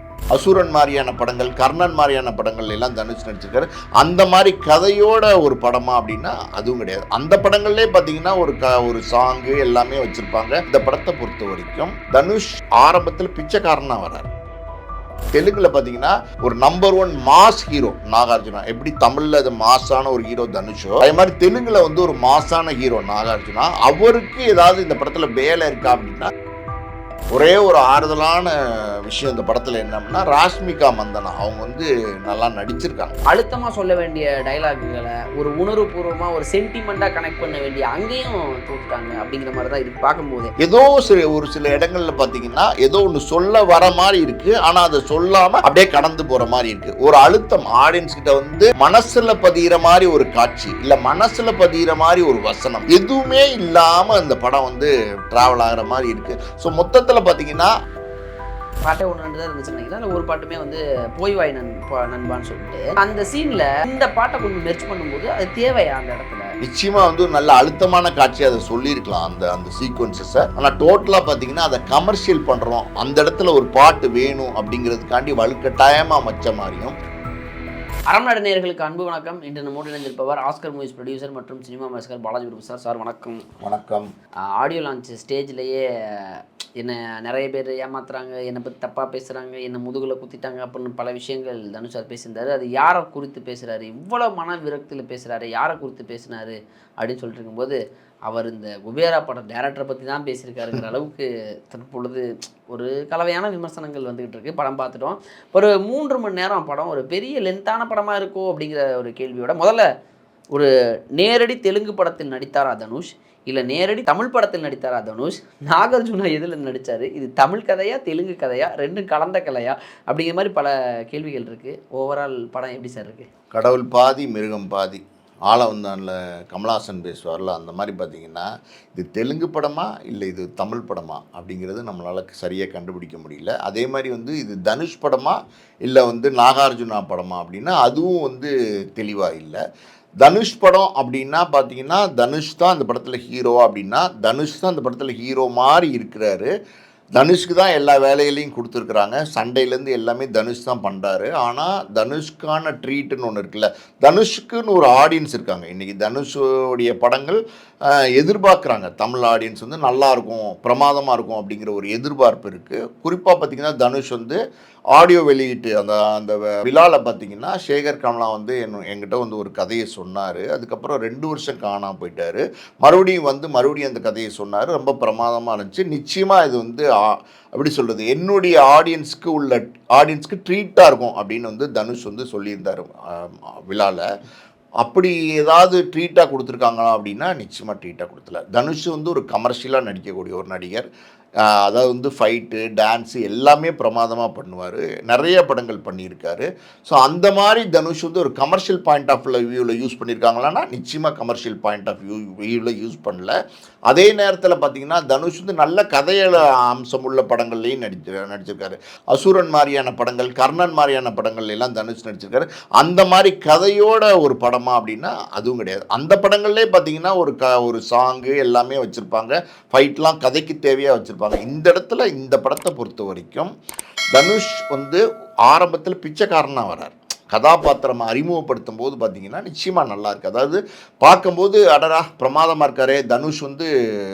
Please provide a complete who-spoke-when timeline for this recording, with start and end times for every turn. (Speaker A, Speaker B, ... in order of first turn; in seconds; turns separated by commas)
Speaker A: 0.3-14.3, Speaker A: 15.3-26.2, Speaker A: 27.3-28.5, Speaker A: 29.0-33.2, Speaker B: 33.3-40.5, Speaker A: 40.6-57.7, Speaker B: 58.8-66.5, Speaker A: 66.7-77.0, Speaker B: 78.1-83.4, Speaker A: 83.6-84.1, Speaker B: 84.5-109.8, Speaker B: 110.5-123.3, Speaker A: 123.5-139.6, Speaker A: 140.2-146.5, Speaker A: 147.2-157.4, Speaker A: 158.2-164.4, Speaker A: 164.9-176.8, Speaker A: 177.5-184.0, Speaker A: 184.8-190.8, Speaker A: 191.5-203.3, Speaker A: 203.9-223.5, Speaker A: 224.1-233.7